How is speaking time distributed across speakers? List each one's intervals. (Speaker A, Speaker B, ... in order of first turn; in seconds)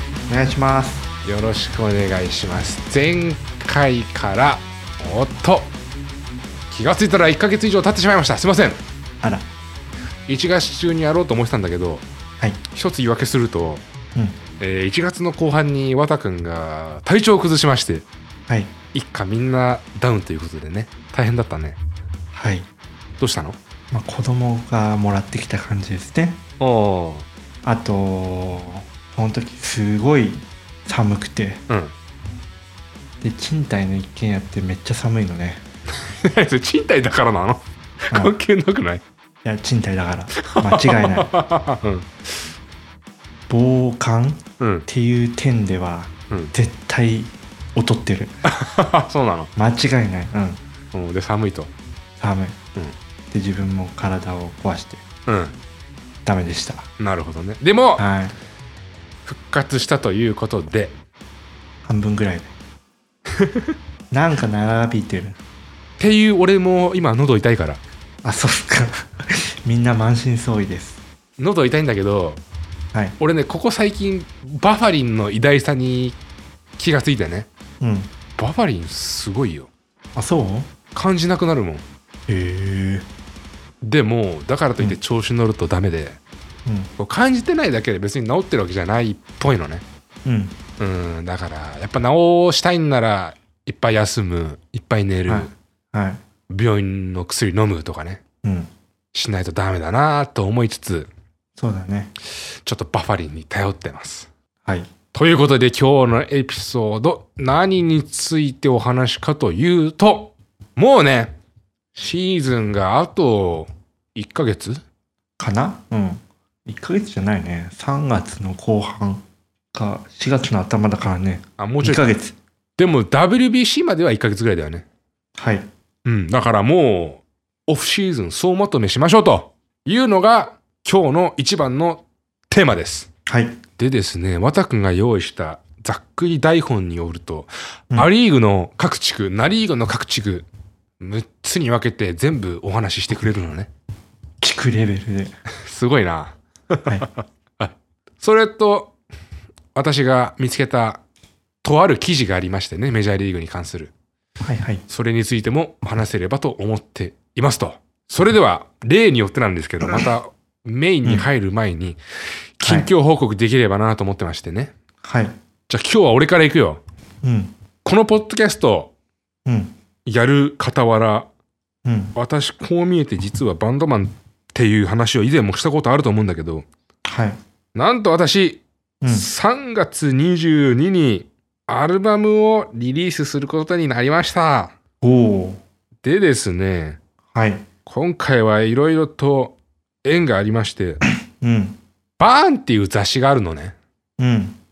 Speaker A: 0.3-1.1, 9.2-9.5, 18.5-18.7, 22.3-22.7, 23.9-26.4, 27.6-31.6, 33.2-35.6, 38.1-38.4, 39.4-41.3, 43.5-48.3, 49.5-50.6, 52.2-52.6, 53.3-55.0, 56.2-56.9, 58.0-58.3, 61.8-62.5, 64.1-65.4, 68.2-71.0, 77.8-78.1, 80.1-80.7, 82.3-83.0, 86.7-86.9, 90.2-90.6, 95.3-96.2, 98.4-98.7, 101.6-102.1, 104.6-104.9, 115.4-122.3, 125.4-125.7, 133.2-133.6, 144.4-145.3, 154.4-154.8, 162.6-162.9, 165.0-165.3, 167.2-167.5, 169.4-169.7, 171.8-172.2, 177.0-177.4, 179.0-179.3, 185.0-185.6, 187.3-187.7, 191.4-191.8, 194.2-194.6
Speaker B: 1.2-5.7, 6.7-8.8, 10.3-12.0, 12.7-13.8, 14.6-18.1, 18.9-21.8, 23.2-23.6, 26.6-27.2, 36.0-39.0, 40.4-42.1, 44.6-44.9, 48.4-49.5, 50.9-51.7, 55.3-55.5, 57.0-58.0, 59.2-60.9, 63.3-63.7, 66.0-67.8, 71.4-72.4, 73.2-76.2, 76.8-77.5, 78.4-79.7, 80.9-81.8, 83.8-86.2, 87.0-89.8, 90.8-95.5, 96.5-98.2, 99.1-101.1, 102.6-104.3, 105.1-111.3, 111.9-114.8, 121.6-122.0, 122.8-124.8, 126.0-133.1, 133.8-140.5, 141.0-143.7, 145.6-148.9, 149.7-151.0, 151.6-153.9, 154.9-162.0, 162.6-164.7, 165.7-166.8, 167.8-168.9, 170.1-171.3, 172.1-176.7, 177.7-184.7, 186.0-187.0, 187.8-191.0, 192.2-193.7